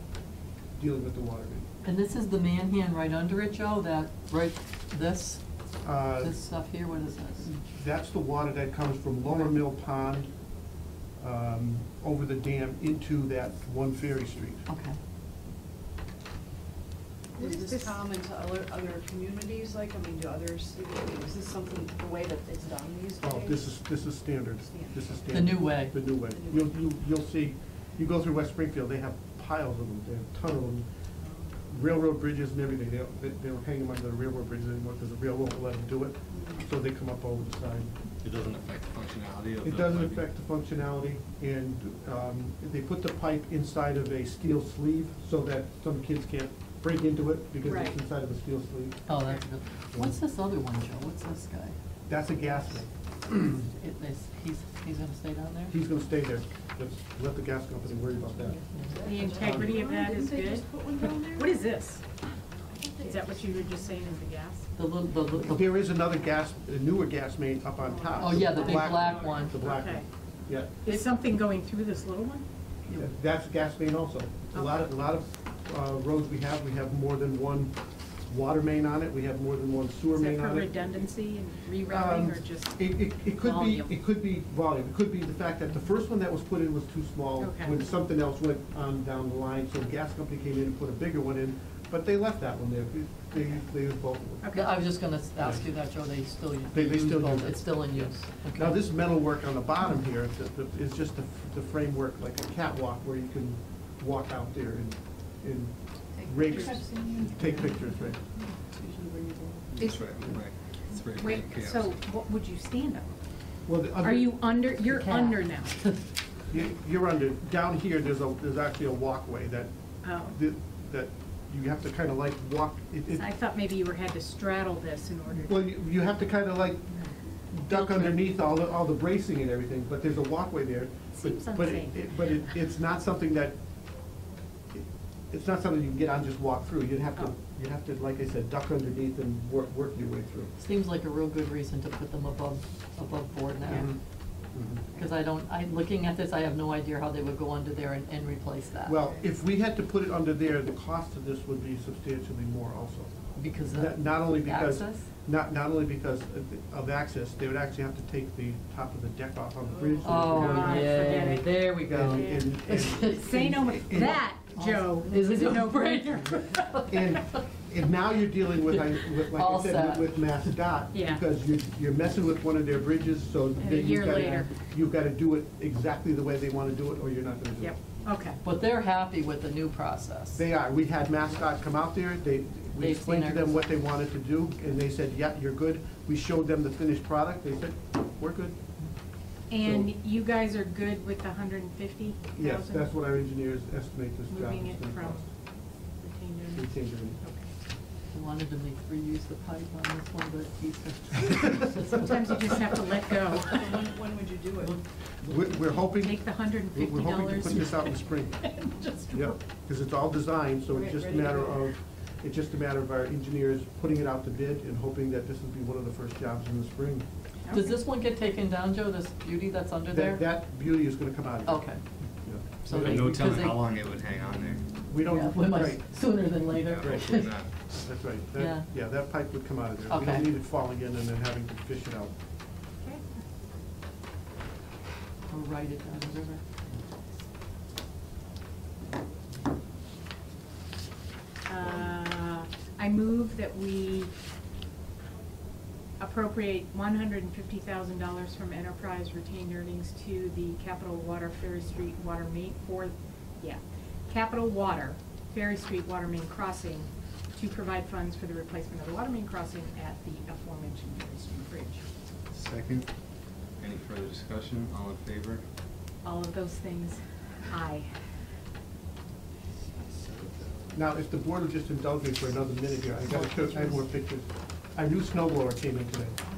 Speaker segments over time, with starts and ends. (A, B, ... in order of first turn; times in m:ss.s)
0:00.8-0:01.7 A
0:01.8-0:05.4 B
0:05.8-0:06.4 A
0:06.2-0:07.5 B
0:07.5-0:10.3 A
0:11.2-0:14.6 A
0:14.7-0:15.0 B
0:17.4-0:18.0 C
0:17.4-0:23.7 D
0:23.2-0:30.9 A
0:25.3-0:26.0 B
0:26.3-0:26.6 D
0:31.7-0:37.9 A
0:38.2-0:40.2 E
0:39.6-0:49.1 A
0:47.6-0:48.0 C
0:49.1-0:51.8 B
0:52.1-0:53.6 A
0:53.5-0:55.8 B
0:55.7-0:58.6 A
0:58.7-0:59.3 B
0:58.9-1:01.6 D
0:59.0-1:02.0 C
0:59.4-0:59.7 A
1:02.8-1:03.7 D
1:03.0-1:04.7 C
1:04.8-1:05.7 B
1:05.5-1:10.9 A
1:08.2-1:09.6 B
1:08.5-1:10.1 C
1:10.8-1:12.4 C
1:12.9-1:21.0 A
1:14.5-1:14.8 C
1:20.1-1:23.9 C
1:21.9-1:34.6 A
1:27.4-1:27.8 C
1:34.4-1:34.7 C
1:34.5-1:38.8 B
1:35.4-1:35.7 A
1:36.7-1:48.2 A
1:46.2-1:47.3 D
1:47.4-1:47.6 B
1:48.8-1:49.7 D
1:49.7-1:52.0 E
1:49.8-1:50.2 C
1:51.2-1:53.2 C
1:53.7-1:54.4 A
1:54.0-1:55.8 C
1:54.8-1:56.1 B
1:56.5-2:03.3 A
2:00.0-2:00.4 C
2:03.1-2:05.7 C
2:05.4-2:06.9 A
2:07.5-2:13.6 A
2:07.7-2:08.1 B
2:11.2-2:12.0 C
2:14.7-2:20.5 A
2:20.6-2:24.0 B
2:23.7-2:24.0 A
2:24.5-2:24.9 A
2:24.9-2:29.0 B
2:28.8-2:33.1 A
2:33.4-2:35.1 B
2:33.7-2:41.3 A
2:40.0-2:43.6 B
2:40.3-2:42.5 C
2:41.9-2:44.2 A
2:43.0-2:47.1 C
2:44.6-2:47.4 B
2:46.9-2:57.8 A
2:48.6-2:50.5 B
2:50.9-2:51.2 C
2:53.6-2:54.5 C
2:57.6-2:58.4 C
2:58.4-3:00.5 B
3:00.3-3:08.6 A
3:02.8-3:03.8 B
3:09.5-3:12.9 C
3:09.6-3:09.9 A
3:12.4-3:15.2 A
3:14.3-3:15.3 C
3:16.0-3:17.5 C
3:16.6-3:17.2 A
3:18.1-3:22.8 B
3:21.9-3:23.8 C
3:23.6-3:24.8 D
3:25.2-3:28.4 A
3:25.8-3:29.4 C
3:29.1-3:37.1 A
3:30.7-3:31.5 D
3:37.4-3:37.8 C
3:37.5-3:40.3 B
3:39.9-3:41.6 A
3:41.5-3:41.8 B
3:42.2-3:43.1 A
3:42.6-3:43.6 B
3:42.7-3:44.6 E
3:44.9-3:45.8 A
3:45.0-3:47.3 B
3:46.7-3:47.5 E
3:47.8-3:52.1 A
3:48.4-3:48.7 B
3:49.9-3:50.3 B
3:55.3-3:56.4 B
4:01.5-4:04.1 C
4:06.0-4:21.8 C
4:22.3-4:22.9 E
4:23.6-4:25.4 E
4:26.0-4:27.9 C
4:30.7-4:36.2 A